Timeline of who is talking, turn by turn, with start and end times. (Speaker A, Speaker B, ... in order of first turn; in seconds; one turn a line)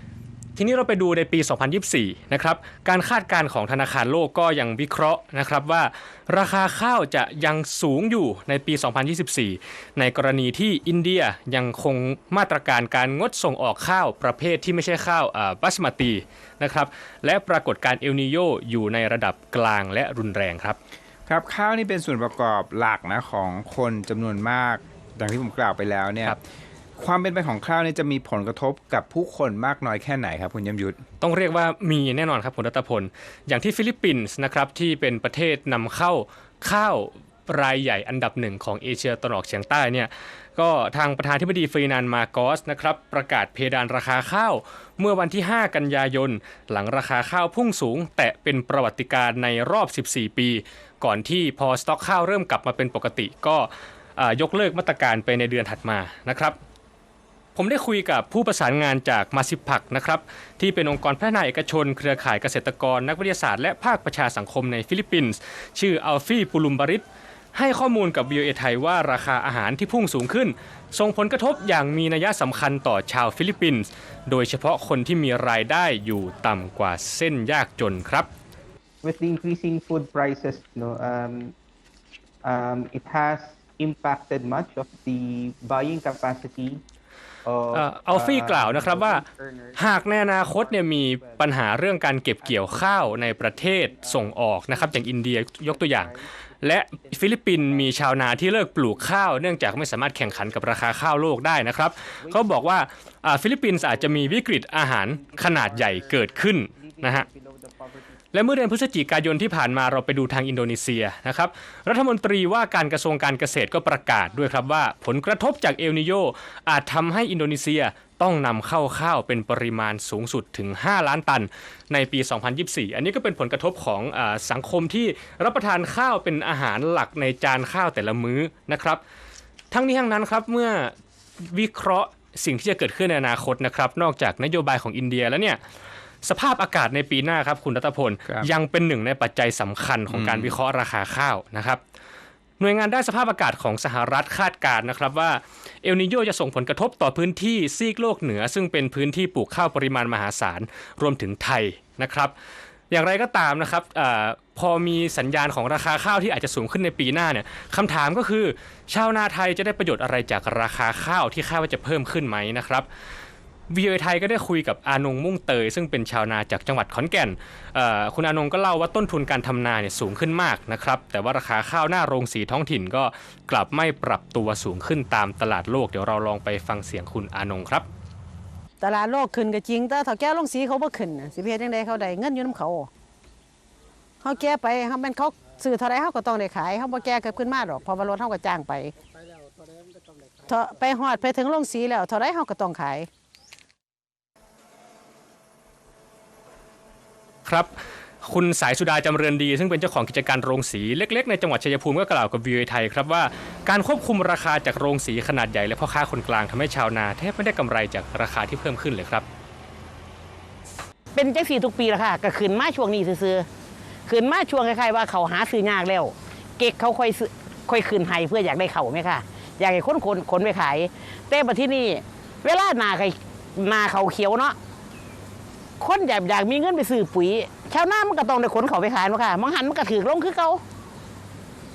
Speaker A: 0.6-20.8
Speaker B: 21.3-26.4
Speaker B: 27.0-31.0
Speaker A: 31.2-56.6
Speaker A: 57.5-78.3
Speaker C: 79.0-81.5
Speaker C: 82.4-86.8
Speaker C: 87.4-91.7
Speaker A: 87.7-89.2
Speaker A: 89.8-107.3
Speaker C: 92.4-100.8
Speaker C: 102.1-102.7
Speaker C: 103.7-108.3
Speaker A: 108.3-129.0
Speaker A: 129.7-135.6
Speaker A: 136.2-141.8
Speaker B: 140.1-140.6
Speaker A: 142.6-152.3
Speaker A: 152.9-162.9
Speaker A: 163.7-177.9
Speaker D: 178.8-182.9
Speaker D: 184.2-188.9
Speaker D: 190.4-193.1
Speaker A: 197.4-209.3
Speaker E: 211.1-213.5
Speaker E: 214.1-224.6
Speaker E: 225.8-230.6